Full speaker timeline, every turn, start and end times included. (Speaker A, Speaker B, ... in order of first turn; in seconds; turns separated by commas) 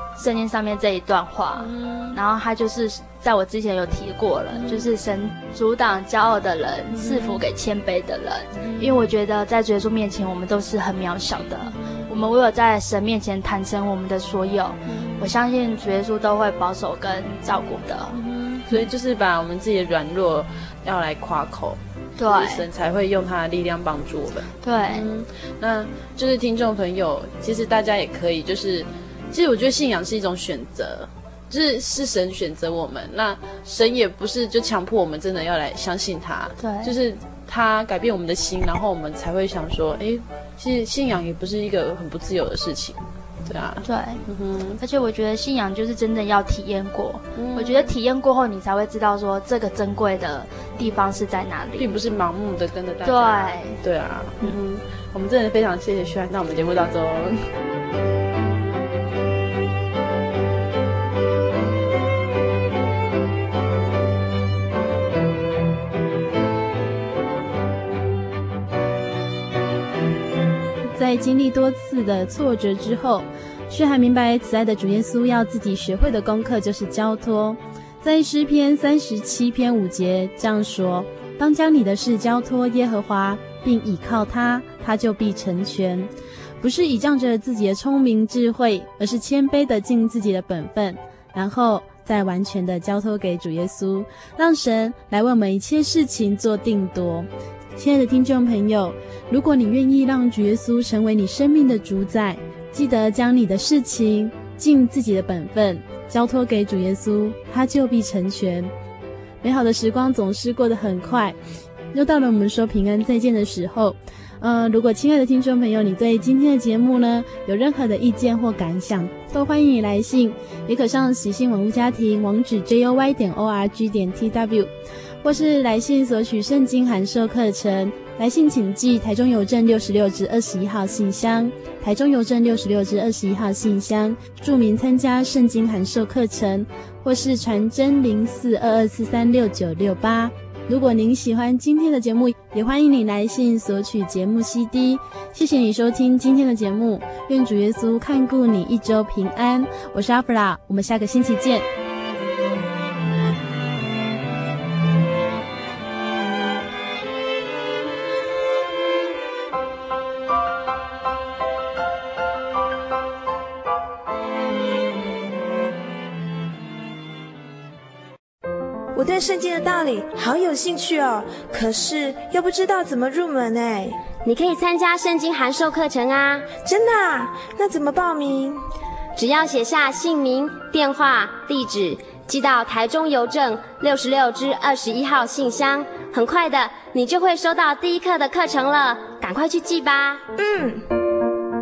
Speaker A: 0.2-18.2, Speaker B: 1.6-2.2, Speaker B: 4.5-4.9, Speaker B: 6.9-7.4, Speaker B: 8.6-9.0, Speaker B: 11.7-12.1, Speaker B: 14.9-15.3, Speaker B: 18.1-44.8, Speaker A: 22.2-22.6, Speaker A: 24.6-25.1, Speaker A: 36.6-36.9, Speaker A: 43.8-44.2, Speaker A: 44.8-52.0, Speaker B: 47.3-47.9, Speaker B: 51.8-57.4, Speaker A: 53.0-53.8, Speaker C: 70.9-108.7, Speaker C: 109.4-111.4, Speaker C: 111.9-124.7, Speaker C: 125.2-151.7, Speaker D: 168.9-174.0, Speaker E: 174.2-176.5, Speaker D: 176.5-178.6, Speaker E: 179.2-190.2, Speaker D: 190.4-190.8